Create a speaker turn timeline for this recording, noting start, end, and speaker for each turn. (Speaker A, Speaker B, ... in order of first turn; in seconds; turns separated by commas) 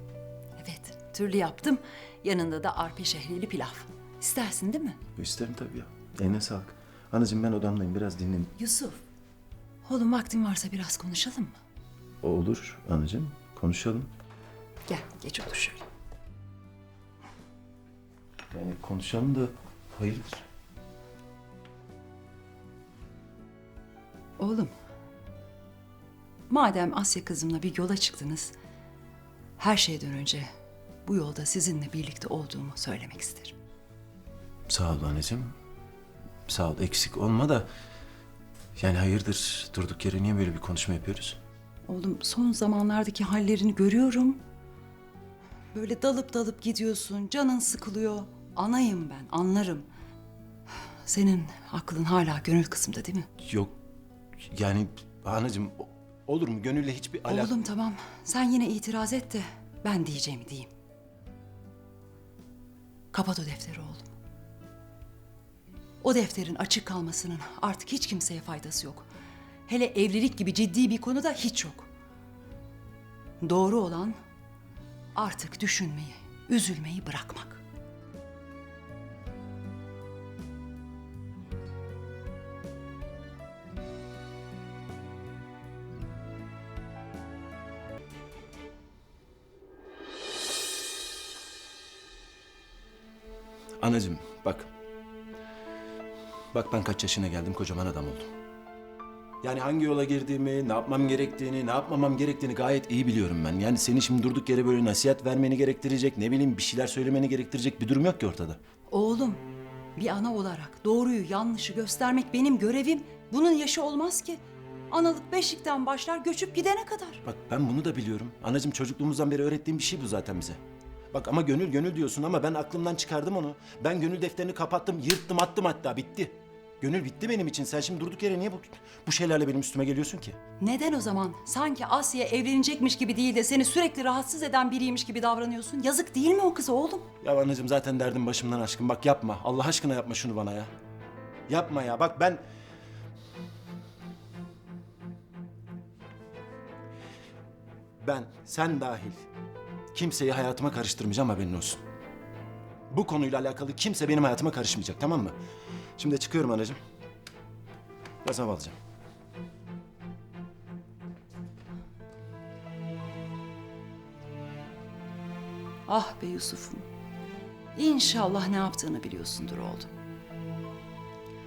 Speaker A: 0.6-5.0, Speaker B: 5.2-8.5, Speaker A: 8.6-9.0, Speaker A: 9.8-11.6, Speaker B: 12.2-14.1, Speaker A: 14.9-15.8, Speaker B: 18.5-20.4, Speaker A: 24.4-24.7, Speaker A: 26.5-28.5, Speaker A: 29.6-30.4, Speaker A: 31.1-33.6, Speaker B: 34.7-35.5, Speaker B: 36.5-37.7, Speaker B: 38.8-41.4, Speaker A: 41.9-44.4, Speaker A: 45.7-49.9, Speaker A: 51.0-53.3, Speaker B: 53.4-53.7, Speaker B: 54.4-57.5, Speaker A: 57.3-60.7, Speaker A: 63.1-64.1, Speaker A: 66.0-69.1, Speaker A: 69.7-71.9, Speaker A: 73.4-74.2, Speaker A: 75.2-77.6, Speaker B: 93.8-94.7, Speaker B: 96.5-98.3, Speaker B: 99.4-108.6, Speaker A: 108.9-109.4, Speaker A: 110.0-114.4, Speaker A: 114.9-117.2, Speaker B: 117.2-120.6, Speaker B: 121.1-130.4, Speaker A: 130.6-137.1, Speaker B: 137.2-140.7, Speaker B: 141.5-142.4, Speaker B: 148.0-149.3, Speaker B: 149.9-151.8, Speaker B: 152.9-155.3, Speaker B: 156.0-156.8, Speaker B: 158.2-158.8, Speaker A: 165.9-166.8, Speaker A: 167.8-169.9